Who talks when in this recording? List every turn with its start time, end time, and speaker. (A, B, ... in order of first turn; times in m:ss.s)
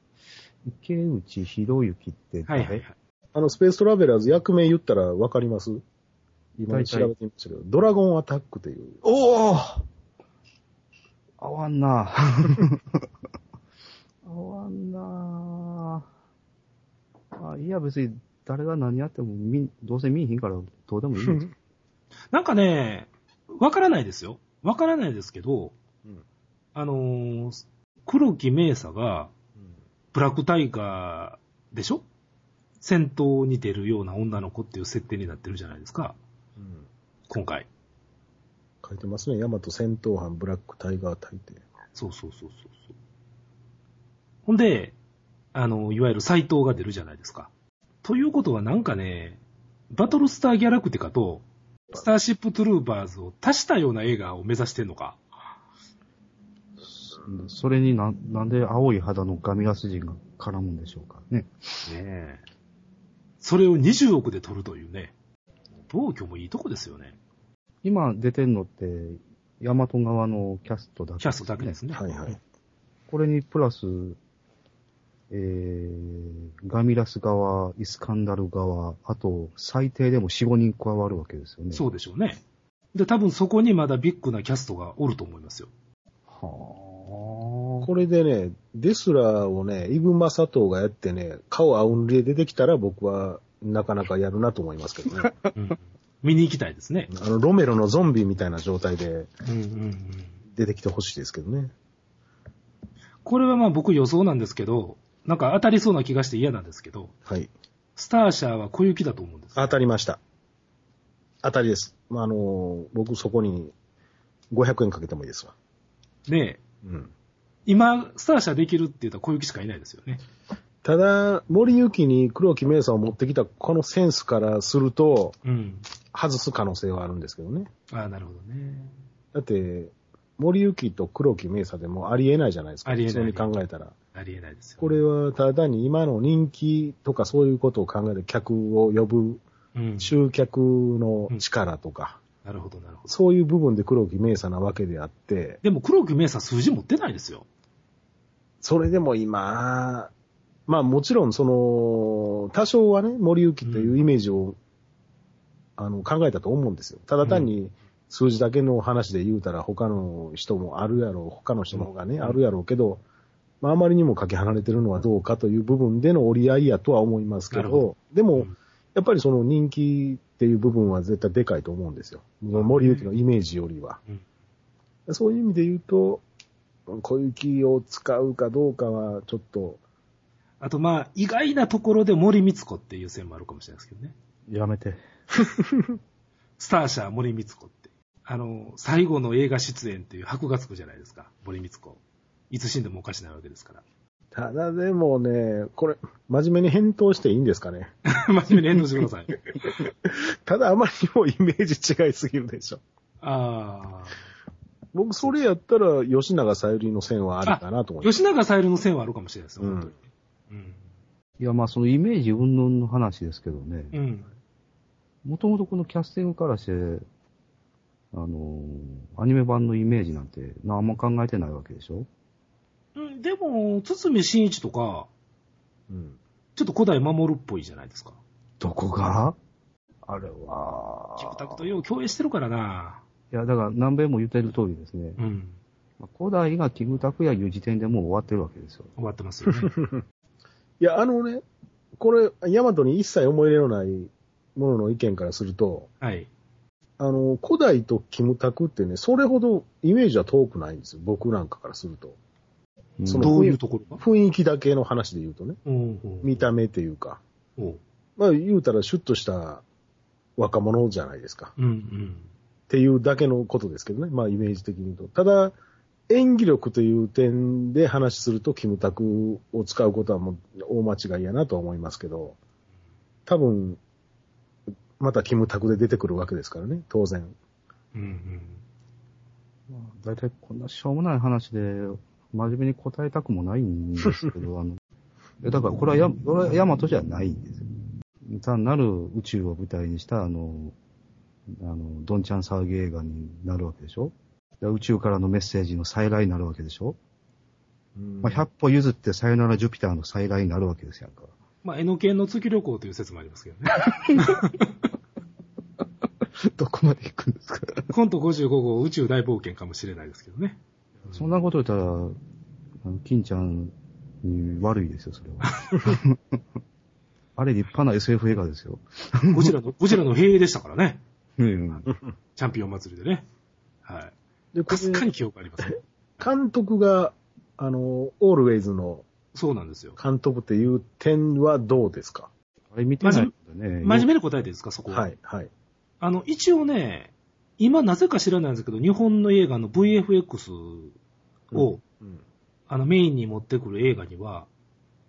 0:00.7-0:02.8 A
0:02.5-0:03.0 B
0:03.3-0:05.8 C
0:06.6-0:09.0 C
0:06.7-0:07.1 A
0:09.0-0:09.9 A
0:11.4-0:12.8 A
0:14.2-0:16.1 A
0:17.4-0:21.5 A
0:22.3-0:25.8 B
0:26.7-0:29.3 B
0:30.1-0:32.0 B
0:32.8-0:36.2 B
0:36.6-0:36.9 C
0:37.3-0:37.7 B
0:38.8-0:41.6 C
0:42.0-0:42.9 B
0:44.5-0:45.0 B
0:45.5-0:47.5 B
0:48.0-0:55.2 B
0:56.8-1:01.9 A
1:01.9-1:02.4 B
1:03.4-1:05.1 B
1:05.8-1:07.2 B
1:07.8-1:11.8 A
1:11.2-1:12.4 B
1:11.9-1:12.4 C
1:13.1-1:14.2 A
1:15.3-1:21.8 A
1:21.7-1:22.4 B
1:22.9-1:25.7 B
1:26.3-1:27.9 A
1:27.8-1:35.3 C
1:35.5-1:37.1 B
1:37.1-1:39.3 C
1:39.5-1:40.4 B
1:40.5-1:41.7 C
1:43.2-1:47.1 B
1:48.0-1:49.8 B
1:49.6-1:50.2 C
1:51.4-1:53.7 C
1:54.5-1:55.5 C
1:56.3-1:56.6 B
1:56.8-1:57.1 C
1:57.7-2:00.2 B
2:00.8-2:05.4 C
2:05.4-2:05.9 B
2:06.1-2:07.7 C
2:07.9-2:09.0 B
2:09.3-2:14.0 C
2:12.8-2:13.5 B
2:14.1-2:15.0 B
2:14.8-2:19.4 C
2:19.7-2:20.2 B
2:20.0-2:22.2 C
2:22.4-2:23.1 B
2:23.1-2:25.6 C
2:25.6-2:27.5 B
2:28.6-2:30.1 C
2:30.7-2:34.6 C
2:33.6-2:34.0 B
2:35.8-2:43.0 C
2:37.2-2:37.5 B
2:41.7-2:42.4 B
2:43.6-2:54.0 C
2:47.5-2:48.6 B
2:52.5-2:53.1 B
2:55.1-2:56.2 C
2:56.9-2:59.8 C
3:00.6-3:04.2 B
3:04.5-3:05.0 A
3:06.6-3:12.0 B
3:12.5-3:13.8 B
3:14.3-3:17.9 C
3:18.1-3:19.4 B
3:19.8-3:22.8 C
3:23.2-3:24.2 B
3:24.9-3:28.2 C
3:27.4-3:30.8 B
3:29.6-3:29.9 C
3:31.4-3:33.9 A
3:33.9-3:34.3 B
3:35.2-3:37.0 A
3:38.1-3:42.1 A
3:43.0-3:45.1 B
3:45.9-3:46.2 C
3:46.6-3:48.2 B
3:48.6-3:49.4 A
3:50.0-3:51.7 A
3:51.2-3:53.0 B
3:53.3-3:55.2 A
3:55.2-3:55.6 B
3:56.0-3:58.9 A
3:59.0-3:59.7 B
3:59.5-4:00.0 C
4:00.8-4:01.4 C
4:02.0-4:05.9 C
4:06.0-4:06.3 B
4:07.0-4:12.2 C
4:13.0-4:13.5 A
4:13.1-4:15.6 C
4:13.2-4:14.0 B
4:15.6-4:16.5 B
4:16.2-4:17.2 C
4:18.2-4:19.6 C
4:20.4-4:21.5 C
4:21.6-4:22.3 B
4:22.7-4:25.6 C
4:26.1-4:32.4 C
4:33.3-4:33.8 C
4:35.0-4:37.4 C
4:37.9-4:38.6 B
4:39.7-4:44.8 A
4:45.4-4:47.7 A
4:48.3-4:50.8 A
4:51.5-4:57.0 A
4:58.0-4:58.4 C
4:58.2-5:01.3 A
5:01.6-5:04.6 B
5:06.5-5:07.9 A
5:07.9-5:10.6 B
5:11.1-5:12.2 A
5:12.8-5:16.4 A
5:17.4-5:19.6 A
5:19.3-5:21.0 B
5:21.4-5:21.9 A
5:22.4-5:23.3 B
5:23.8-5:24.2 B
5:24.5-5:25.0 C
5:24.7-5:25.8 B
5:25.6-5:29.1 C
5:29.3-5:30.0 B
5:30.0-5:32.3 C
5:32.7-5:34.1 A
5:33.0-5:33.3 B
5:33.8-5:35.1 B
5:34.9-5:35.5 C
5:36.0-5:41.0 B
5:41.5-5:41.8 B
5:41.5-5:42.2 C
5:42.7-5:44.5 B